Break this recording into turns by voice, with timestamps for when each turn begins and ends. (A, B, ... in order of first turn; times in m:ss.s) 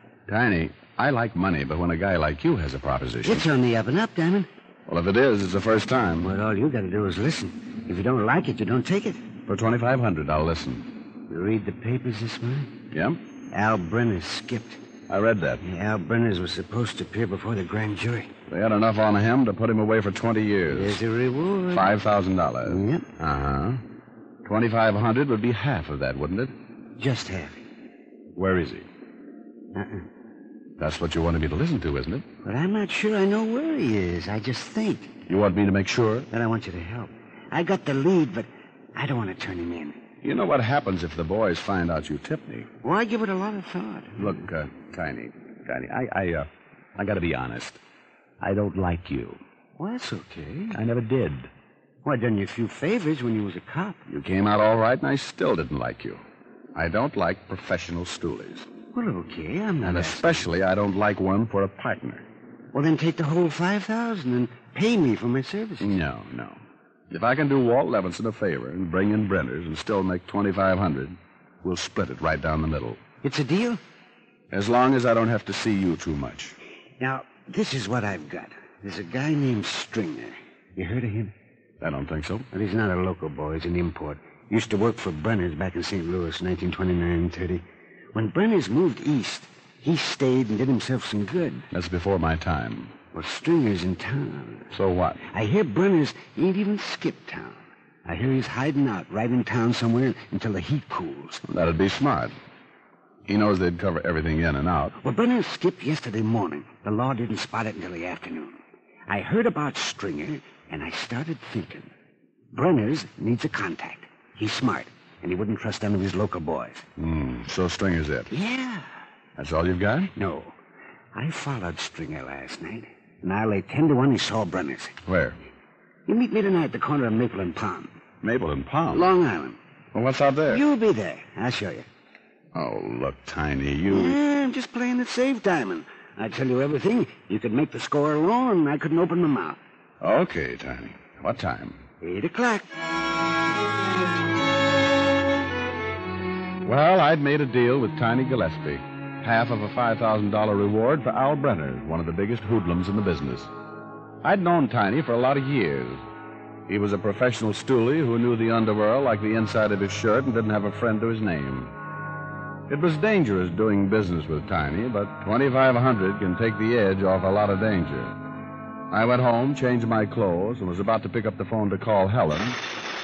0:00.3-0:03.5 A
0:03.2-0:04.5 B
0:04.9-0:06.3 A
0:06.2-0:09.2 B
0:09.5-0:10.8 A
0:11.3-0:12.7 B
0:12.9-0:13.2 A
0:13.5-0:14.8 B
0:15.1-0:15.6 A
0:15.6-0:18.3 B
0:18.5-0:21.0 A
0:20.7-0:21.9 B
0:21.7-0:23.8 A
0:22.6-0:23.0 B
0:24.4-0:26.5 A
0:27.0-0:27.6 B
0:28.3-0:28.9 A
0:29.7-0:30.0 B
0:30.8-0:32.2 A
0:32.4-0:35.1 B
0:35.3-0:36.3 A
0:36.3-0:40.0 B
0:40.2-0:42.7 A
0:42.8-0:44.3 B
0:44.2-0:47.8 A
0:48.4-0:49.4 A
0:49.8-0:50.8 B
0:50.7-0:51.5 A
0:52.0-0:54.0 B
0:54.1-0:56.2 A
0:56.7-0:58.7 A
0:58.9-1:00.4 B
0:59.8-1:02.2 A
1:02.7-1:05.9 B
1:05.8-1:13.0 A
1:13.2-1:13.8 B
1:14.5-1:16.6 A
1:17.0-1:21.3 B
1:21.8-1:22.5 A
1:22.5-1:31.6 B
1:31.7-1:32.9 A
1:33.1-1:34.7 B
1:34.7-1:35.2 A
1:35.3-1:41.4 B
1:41.4-1:42.4 A
1:43.3-1:45.0 A
1:45.0-1:51.9 B
1:52.5-1:56.8 B
1:57.0-1:58.3 A
1:58.3-1:58.8 B
1:59.4-2:00.1 A
2:00.2-2:00.6 B
2:01.1-2:04.9 B
2:05.0-2:05.4 A
2:06.0-2:07.9 B
2:08.2-2:09.1 A
2:08.9-2:09.6 B
2:09.9-2:10.6 A
2:10.5-2:11.8 B
2:12.5-2:14.2 A
2:13.9-2:19.6 B
2:20.0-2:21.8 A
2:22.0-2:22.6 B
2:26.6-2:33.5 A
2:34.2-2:36.0 A
2:36.7-2:41.7 A
2:42.7-2:48.1 A
2:48.9-2:52.6 A